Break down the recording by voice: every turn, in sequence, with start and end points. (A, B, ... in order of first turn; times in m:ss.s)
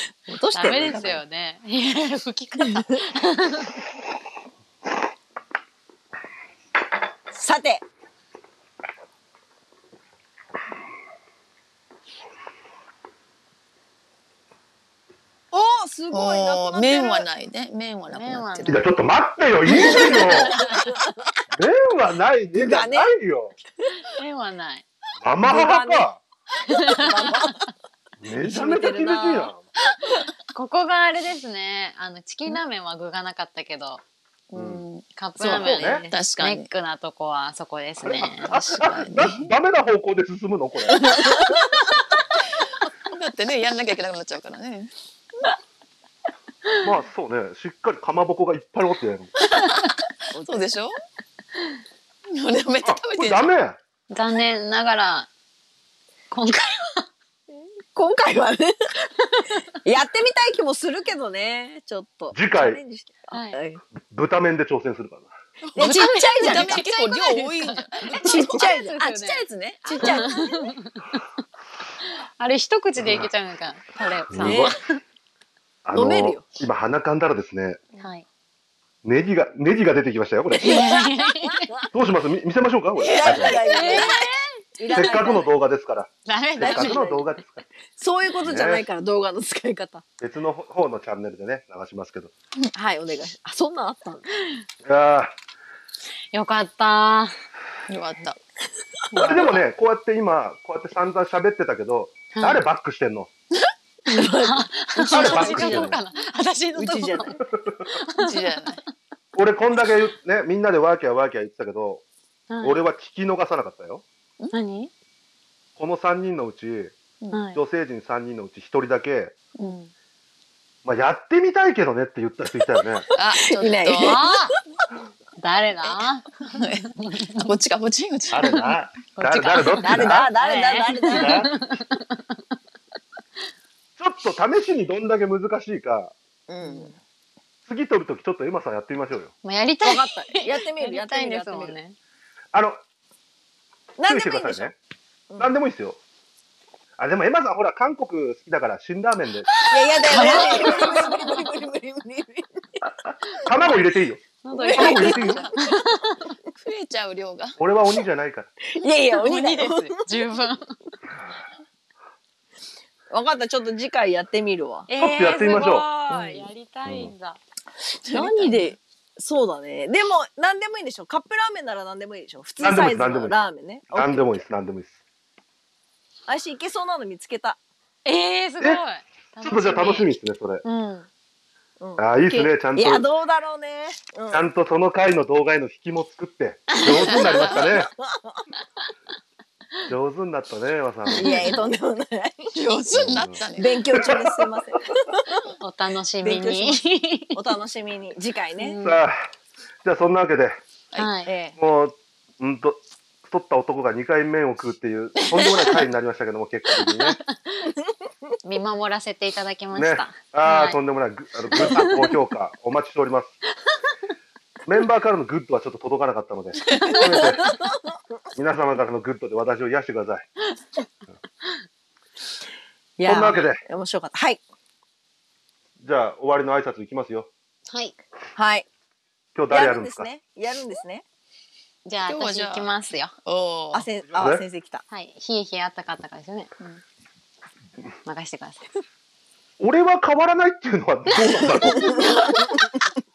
0:00.3-0:01.2 A
0:00.5-0:03.8 B
0:00.7-0:01.2 C
0:07.3-0:07.8 A
0:15.5-0:17.3 A
0:16.1-0:18.8 D
0:18.1-0:18.9 B
0:18.6-0:20.6 C
0:19.7-0:20.8 A
0:19.8-0:20.6 D
0:21.6-0:23.6 C
0:22.6-0:23.1 A
0:24.0-0:24.8 B
0:25.2-0:26.2 C
0:25.4-0:26.1 A
0:26.7-0:27.4 B
0:26.7-0:27.7 A
0:28.2-0:29.6 C
0:28.4-0:29.5 A
0:30.5-0:34.0 B
0:34.5-0:36.7 D
0:34.6-0:34.8 C
0:35.2-0:38.8 B
0:35.4-0:36.1 A
0:35.6-0:36.1 C
0:38.1-0:41.1 C
0:38.6-0:39.5 D
0:43.1-0:45.6 D
0:46.8-0:49.3 C
0:50.4-0:50.6 A
0:50.4-0:51.0 D
0:52.4-0:53.5 D
0:52.8-0:53.8 C
0:54.1-0:55.3 B
0:56.3-0:57.1 B
0:57.5-0:58.8 A
0:59.8-1:03.8 A
1:02.3-1:02.8 C
1:04.0-1:05.3 C
1:05.7-1:10.4 D
1:05.8-1:07.4 A
1:05.8-1:09.4 B
1:08.2-1:09.0 A
1:09.8-1:10.7 A
1:10.0-1:10.7 B
1:12.4-1:14.8 B
1:13.0-1:13.3 C
1:14.3-1:14.8 C
1:14.4-1:14.7 A
1:15.8-1:17.8 C
1:15.9-1:16.5 A
1:18.0-1:18.3 B
1:19.0-1:20.9 C
1:20.6-1:21.8 B
1:20.6-1:21.6 A
1:21.9-1:23.7 C
1:23.0-1:25.5 A
1:23.1-1:24.0 D
1:23.6-1:25.4 B
1:24.9-1:27.6 C
1:26.3-1:27.0 B
1:26.6-1:27.3 A
1:28.0-1:30.0 A
1:28.4-1:28.9 C
1:30.2-1:32.3 C
1:32.8-1:34.3 A
1:34.8-1:35.4 C
1:36.3-1:37.3 B
1:37.9-1:38.4 D
1:39.1-1:39.6 D
1:39.2-1:39.5 A
1:39.2-1:43.3 C
1:42.3-1:42.6 B
1:44.1-1:45.9 A
1:44.2-1:48.4 B
1:45.1-1:46.0 C
1:46.8-1:47.4 A
1:48.2-1:48.8 D
1:49.3-1:52.0 C
1:52.5-1:52.8 B
1:52.6-1:54.0 C
1:54.5-1:54.9 B
1:55.8-1:57.0 C
1:57.3-1:57.6 B
1:57.5-1:59.4 C
1:59.6-1:59.9 B
2:00.8-2:03.1 C
2:03.2-2:04.2 D
2:03.6-2:04.3 A
2:04.0-2:04.6 B
2:05.4-2:06.4 B
2:05.8-2:08.5 D
2:08.3-2:10.3 C
2:08.4-2:12.2 B
2:09.8-2:11.5 A
2:11.0-2:11.5 C
2:14.0-2:16.1 C
2:16.5-2:17.0 A
2:16.6-2:16.9 B
2:17.7-2:19.3 C
2:19.4-2:22.0 B
2:19.8-2:21.8 A
2:22.5-2:22.8 C
2:24.0-2:24.7 A
2:24.1-2:24.8 C
2:25.4-2:26.0 C
2:27.0-2:29.5 C
2:29.5-2:31.4 B
2:29.7-2:32.8 A
2:30.2-2:30.8 C
2:33.0-2:35.5 C
2:34.4-2:36.3 B
2:34.6-2:35.1 A
2:34.7-2:35.6 D
2:36.6-2:37.6 D
2:37.6-2:38.5 C
2:38.7-2:40.1 A
2:39.0-2:40.8 B
2:43.1-2:44.9 A
2:44.9-2:47.4 B
2:44.9-2:45.9 C
2:45.9-2:46.5 A
2:46.9-2:47.1 C
2:48.0-2:48.7 D
2:48.1-2:54.5 A
2:52.6-2:55.0 C
2:56.3-2:57.6 A
2:58.0-3:00.1 B
2:59.4-3:00.6 C
3:00.6-3:01.1 B
3:01.8-3:04.4 A
3:02.0-3:03.1 C
3:04.3-3:07.9 C
3:06.9-3:08.4 A
3:07.0-3:07.8 D
3:09.9-3:11.5 C
3:11.1-3:12.6 A
3:11.2-3:11.6 B
3:12.6-3:13.9 D
3:12.9-3:13.4 C
3:13.6-3:15.4 A
3:14.0-3:14.2 C
3:15.6-3:17.4 B
3:16.2-3:16.8 A
3:17.4-3:18.8 A
3:18.6-3:19.0 B
3:18.8-3:19.2 C
3:19.8-3:20.6 C
3:21.0-3:21.5 B
3:21.6-3:27.2 C
3:25.4-3:25.8 D
3:28.4-3:30.8 B
3:29.8-3:33.4 C
3:31.5-3:32.2 B
3:34.7-3:37.6 C
3:36.9-3:37.7 A
3:38.4-3:40.3 C
3:43.0-3:44.4 A
3:43.0-3:43.6 C
3:45.8-3:47.3 C
3:47.7-3:48.0 B
3:48.4-3:48.7 A
3:49.4-3:50.1 C
3:49.5-3:51.0 A
3:51.8-3:53.1 B
3:52.0-3:52.7 D
3:53.2-3:53.9 D
3:53.7-3:54.8 A
3:54.1-3:54.4 C
3:54.9-3:56.5 B
3:58.0-3:58.7 B
3:59.6-4:02.2 C
4:01.8-4:02.4 A